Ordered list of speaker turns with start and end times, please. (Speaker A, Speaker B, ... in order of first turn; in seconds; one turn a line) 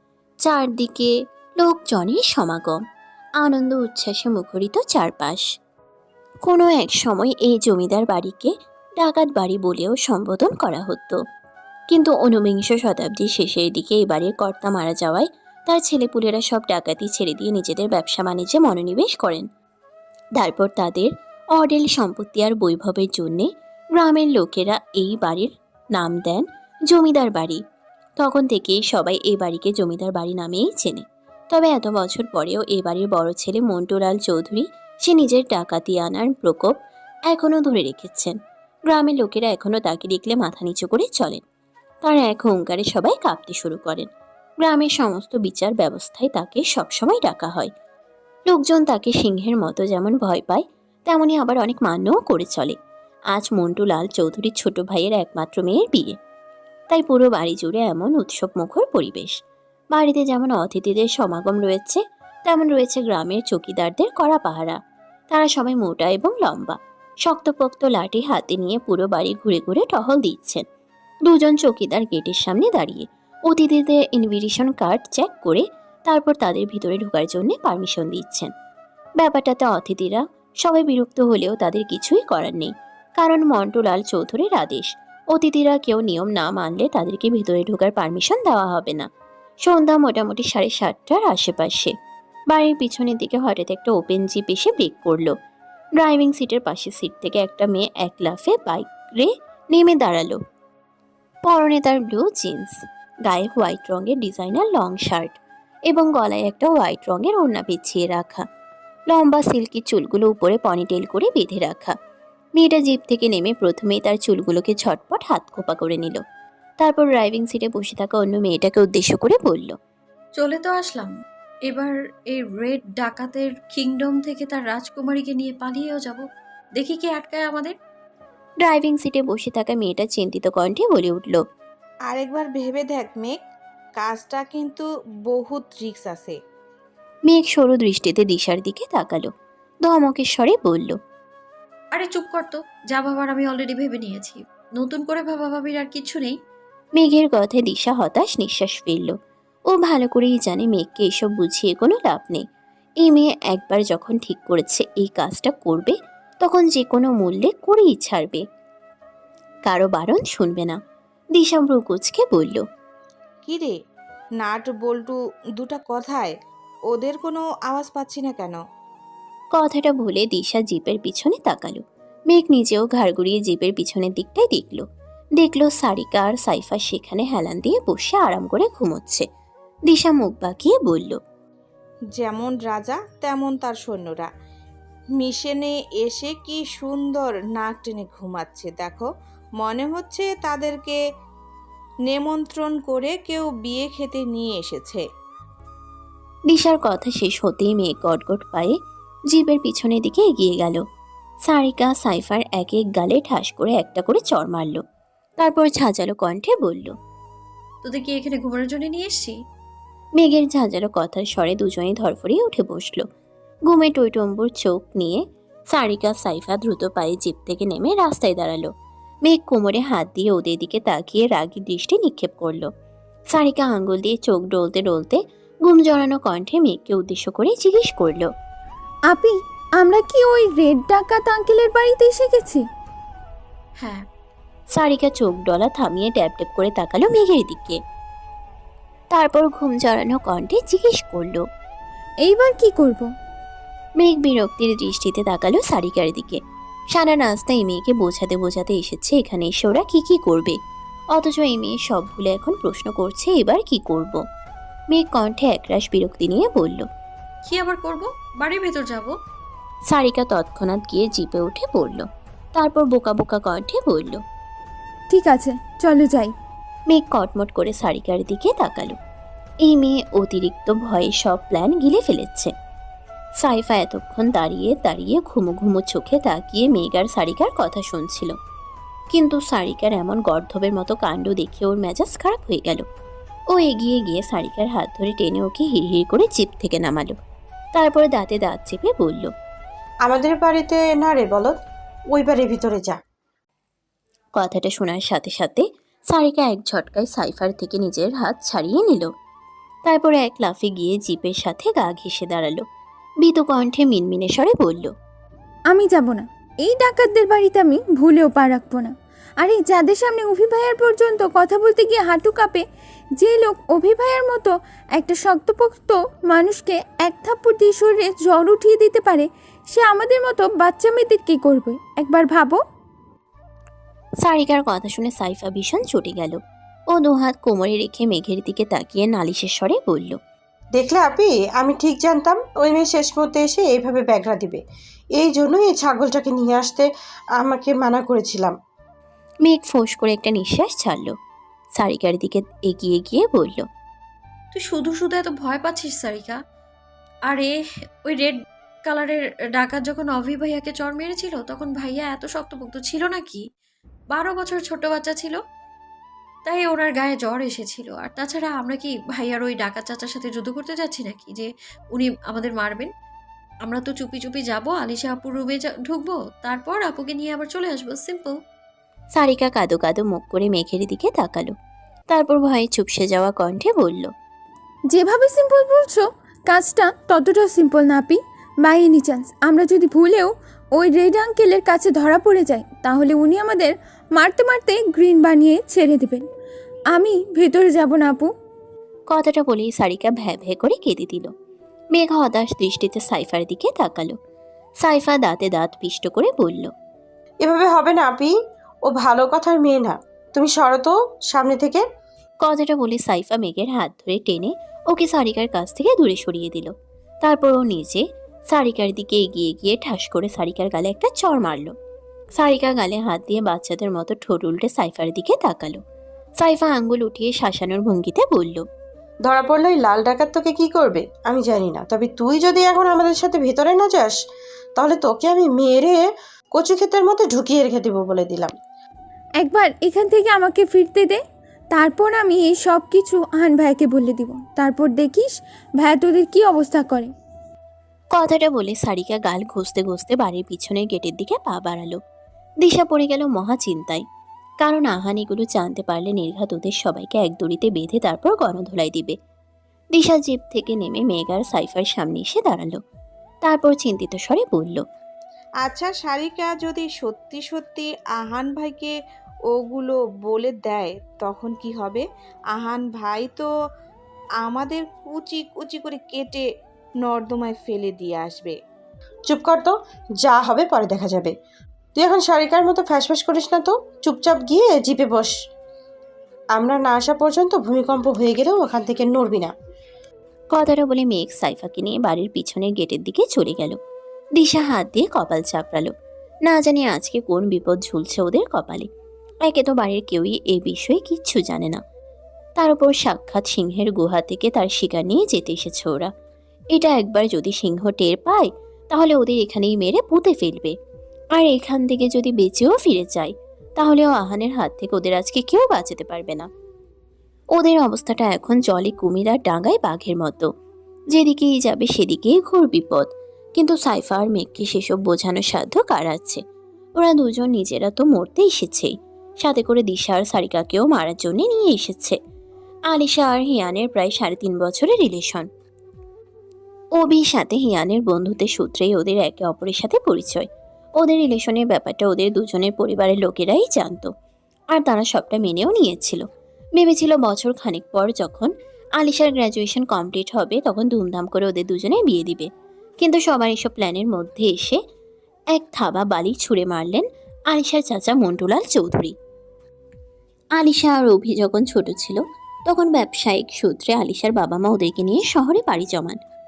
Speaker A: 0.4-2.8
Speaker A: 3.4-5.4
Speaker A: 6.5-11.2
Speaker A: 11.9-19.5
Speaker A: 20.4-27.6
Speaker A: 28.2-36.7
Speaker A: 37.3-38.4
Speaker A: 38.9-41.4
Speaker A: 42.0-44.1
Speaker A: 44.6-47.7
Speaker A: 48.5-52.7
Speaker A: 53.3-56.1
Speaker A: 56.9-59.3
Speaker A: 59.9-64.8
Speaker A: 65.3-70.6
Speaker A: 71.2-78.5
Speaker A: 79.2-89.1
Speaker A: 89.6-91.9
Speaker A: 92.5-95.3
Speaker A: 96.0-100.4
Speaker A: 101.5-108.4
Speaker A: 109.1-111.9
Speaker A: 112.6-116.2
Speaker A: 116.8-119.7
Speaker B: 120.4-121.1
Speaker B: 121.7-126.2
Speaker B: 126.8-127.7
Speaker A: 128.6-131.4
Speaker C: 132.1-133.4
Speaker C: 134.0-136.4
Speaker A: 137.3-139.3
Speaker A: 139.8-140.9
Speaker B: 141.9-146.3
Speaker A: 146.9-149.1
Speaker A: 149.7-152.4
Speaker A: 153.0-158.4
Speaker A: 159.7-160.8
Speaker A: 161.3-162.6
Speaker C: 163.4-163.7
Speaker C: 164.4-166.3
Speaker C: 166.9-168.6
Speaker A: 169.5-174.8
Speaker A: 175.4-179.2
Speaker A: 179.9-181.2
Speaker C: 182.1-184.3
Speaker C: 185.2-189.1
Speaker C: 189.6-191.0
Speaker C: 192.1-195.0
Speaker A: 196.5-198.7
Speaker A: 199.3-200.8
Speaker A: 201.5-204.8
Speaker A: 205.4-206.9
Speaker B: 207.8-209.3
Speaker A: 210.2-213.0
Speaker A: 213.7-218.7
Speaker A: 219.2-222.7
Speaker A: 223.3-228.3
Speaker D: 229.1-232.6
Speaker B: 233.8-234.0
Speaker A: 234.7-237.8
Speaker A: 239.1-241.4
Speaker D: 242.2-243.1
Speaker A: 244.0-246.4
Speaker A: 246.9-250.6
Speaker A: 251.1-254.2
Speaker A: 254.9-256.9
Speaker B: 257.4-259.1
Speaker A: 259.9-264.2
Speaker D: 265.1-266.3
Speaker A: 266.9-268.9
Speaker A: 269.6-272.5
Speaker A: 273.4-278.3
Speaker A: 279.1-282.8
Speaker A: 283.5-287.1
Speaker A: 287.8-289.3
Speaker E: 290.1-291.6
Speaker E: 292.1-293.0
Speaker A: 294.4-299.1
Speaker A: 299.9-302.6
Speaker A: 303.2-304.9
Speaker D: 305.7-312.6
Speaker D: 313.2-322.6
Speaker A: 324.2-326.4
Speaker A: 326.9-330.2
Speaker E: 330.8-334.6
Speaker E: 335.1-338.6
Speaker A: 339.4-341.1
Speaker A: 341.8-343.6
Speaker B: 344.5-346.4
Speaker B: 347.3-353.4
Speaker B: 354.1-355.4
Speaker B: 356.4-362.9
Speaker B: 363.6-368.3
Speaker A: 369.1-371.5
Speaker A: 372.1-374.1
Speaker D: 374.9-386.2
Speaker D: 386.9-388.3
Speaker A: 389.1-391.3
Speaker A: 391.9-394.1
Speaker A: 394.8-396.7
Speaker E: 397.4-398.3
Speaker E: 398.9-401.8
Speaker A: 402.4-406.7
Speaker A: 407.2-411.7
Speaker A: 412.4-415.8
Speaker A: 416.4-418.6
Speaker E: 419.2-424.1
Speaker E: 424.8-428.5
Speaker D: 429.4-437.1
Speaker A: 438.1-442.0
Speaker A: 442.6-444.0
Speaker A: 444.6-449.1
Speaker A: 449.9-452.8
Speaker A: 453.4-454.8
Speaker C: 455.6-458.9
Speaker C: 459.5-462.0
Speaker C: 462.5-463.5
Speaker C: 464.4-466.4
Speaker C: 467.0-468.6
Speaker E: 469.3-471.3
Speaker E: 471.9-475.3
Speaker E: 476.6-479.5
Speaker A: 480.5-483.8
Speaker A: 484.4-485.9
Speaker A: 486.4-488.9
Speaker A: 489.4-491.8
Speaker A: 492.6-496.1
Speaker A: 496.7-500.8
Speaker A: 501.3-506.5
Speaker A: 507.6-510.5
Speaker A: 511.1-516.4
Speaker A: 517.0-522.1
Speaker A: 522.9-525.5
Speaker A: 527.0-530.5
Speaker A: 531.0-534.1
Speaker A: 534.7-536.2
Speaker A: 536.8-542.5
Speaker A: 543.0-544.8
Speaker A: 545.5-549.1
Speaker A: 550.6-556.2